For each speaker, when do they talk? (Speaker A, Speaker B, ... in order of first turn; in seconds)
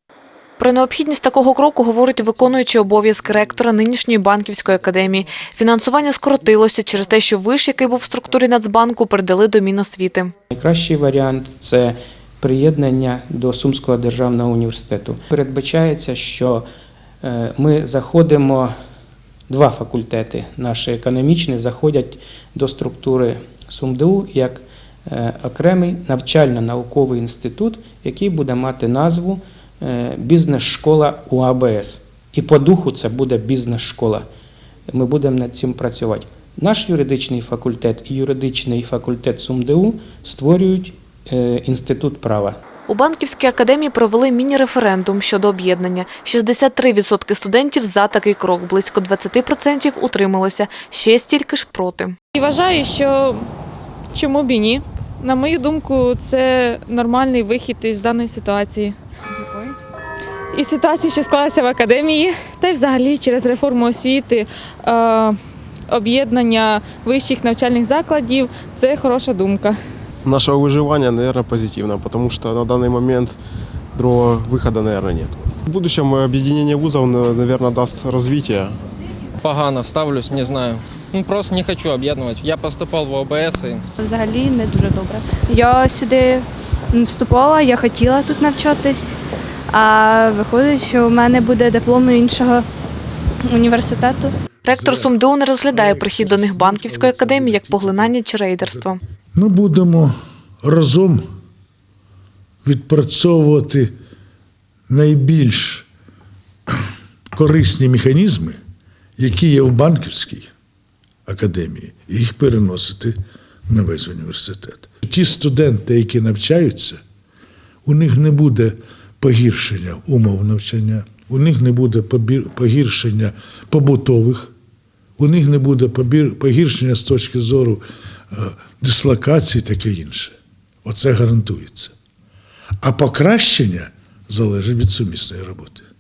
Speaker A: 0.6-10.3, 42.9-52.2, 94.7-99.0
Speaker B: 10.5-16.6, 17.2-18.7, 19.5-34.2, 34.9-42.6
Speaker C: 52.4-53.4, 54.1-59.8, 60.5-65.4, 65.9-69.8
Speaker D: 70.2-73.4, 73.9-78.8
Speaker E: 79.4-83.8
Speaker F: 84.0-89.2, 89.7-92.7, 93.4-94.3
Speaker G: 94.7-100.1, 100.6-101.2, 102.6-103.9, 104.9-105.9, 107.3-108.6, 109.2-110.5, 111.3-113.2, 113.7-117.0, 117.8-124.5, 125.2-127.8, 128.3-131.9, 132.8-135.8